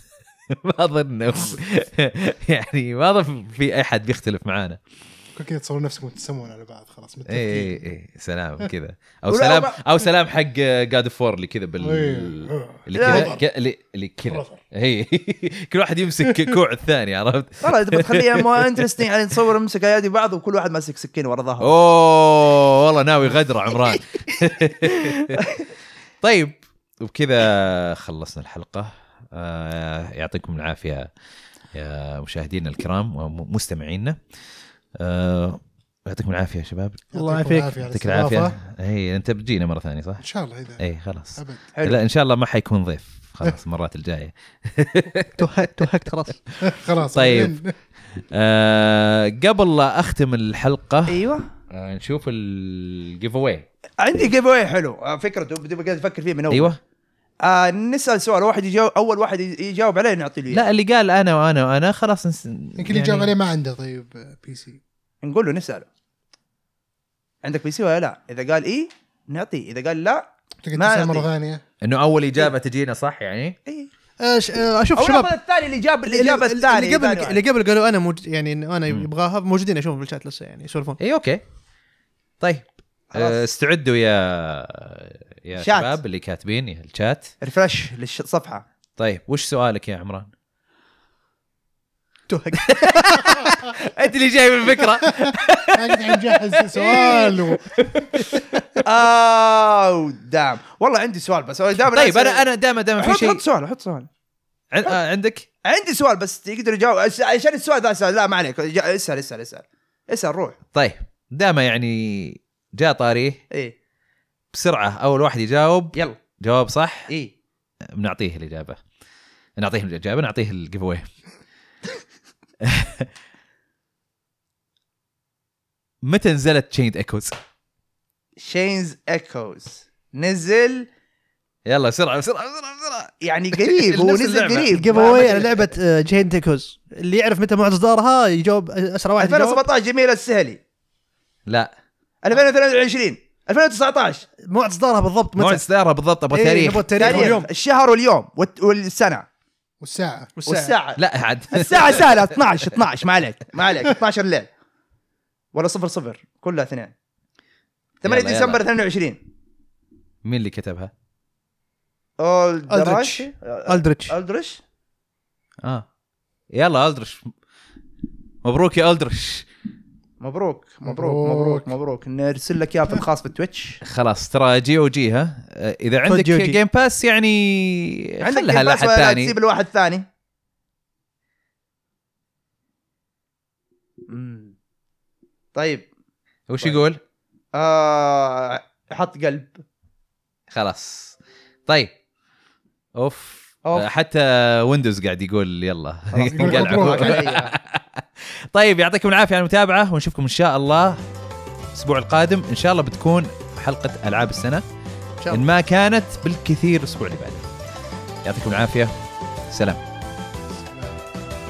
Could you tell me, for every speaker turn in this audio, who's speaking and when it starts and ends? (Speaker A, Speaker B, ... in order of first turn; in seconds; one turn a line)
Speaker A: 0.5-4.8
Speaker B: 5.4-7.8
Speaker A: 7.3-19.0
Speaker C: 9.3-9.8
Speaker B: 11.8-13.4
Speaker C: 12.9-13.3
Speaker B: 14.3-14.6
Speaker B: 16.3-16.5
Speaker C: 17.6-21.7
Speaker A: 21.6-25.4
Speaker C: 24.9-25.6
Speaker A: 26.2-31.1
Speaker A: 31.7-34.2
Speaker A: 35.0-37.1
Speaker B: 37.1-38.6
Speaker D: 37.1-37.7
Speaker A: 37.9-40.2
Speaker B: 40.2-40.8
Speaker A: 40.8-45.4
Speaker B: 41.4-41.6
Speaker C: 41.8-42.0
Speaker D: 45.4-46.4
Speaker B: 46.6-47.7
Speaker A: 46.6-47.6
Speaker A: 48.3-51.2
Speaker C: 51.1-51.5
Speaker A: 51.7-53.6
Speaker C: 54.0-56.7
Speaker A: 56.5-56.8
Speaker C: 57.4-60.7
Speaker A: 60.5-63.3
Speaker B: 62.8-64.8
Speaker C: 65.2-65.9
Speaker C: 67.4-71.3
Speaker B: 70.6-71.6
Speaker A: 71.8-73.6
Speaker C: 73.7-73.9
Speaker D: 74.2-75.3
Speaker C: 75.0-77.4
Speaker D: 76.1-81.0
Speaker A: 81.0-81.4
Speaker A: 82.4-87.3
Speaker C: 83.1-83.4
Speaker C: 85.6-85.9
Speaker C: 87.4-88.6
Speaker A: 89.0-90.3
Speaker D: 92.3-93.4
Speaker A: 92.6-98.4
Speaker B: 95.2-98.6
Speaker C: 98.8-102.4
Speaker A: 101.8-103.4
Speaker C: 103.0-104.1
Speaker A: 104.7-105.5
Speaker C: 105.6-110.6
Speaker A: 110.7-113.4
Speaker A: 114.5-117.1
Speaker C: 117.1-117.3
Speaker A: 117.9-118.8
Speaker A: 119.6-121.0
Speaker A: 122.6-123.1
Speaker A: 126.0-127.4
Speaker C: 128.4-130.9
Speaker A: 131.7-135.4
Speaker C: 133.2-135.6
Speaker D: 134.7-139.6
Speaker C: 139.2-140.6
Speaker C: 142.2-144.3
Speaker D: 144.4-145.6
Speaker A: 145.4-147.4
Speaker D: 146.3-147.5
Speaker C: 146.9-149.3
Speaker B: 149.8-150.3
Speaker D: 150.4-150.7
Speaker C: 150.4-151.0
Speaker A: 151.0-152.4
Speaker C: 151.5-154.5
Speaker C: 155.5-156.9
Speaker C: 158.0-159.2
Speaker A: 158.0-158.6
Speaker A: 160.2-160.9
Speaker C: 162.2-164.6
Speaker D: 162.7-164.1
Speaker A: 166.5-167.3
Speaker A: 168.4-169.4
Speaker C: 170.2-173.8
Speaker B: 170.8-171.7
Speaker A: 173.8-179.3
Speaker D: 176.1-176.6
Speaker C: 178.2-180.1
Speaker C: 184.1-184.5
Speaker C: 185.6-185.9
Speaker A: 186.5-187.0
Speaker C: 187.5-189.6
Speaker A: 190.5-191.2
Speaker A: 191.7-191.9
Speaker A: 192.9-201.0
Speaker C: 196.1-197.5
Speaker B: 196.3-197.2
Speaker A: 201.7-204.6
Speaker A: 205.3-207.4
Speaker A: 208.2-208.9
Speaker A: 209.5-209.8
Speaker B: 210.5-211.0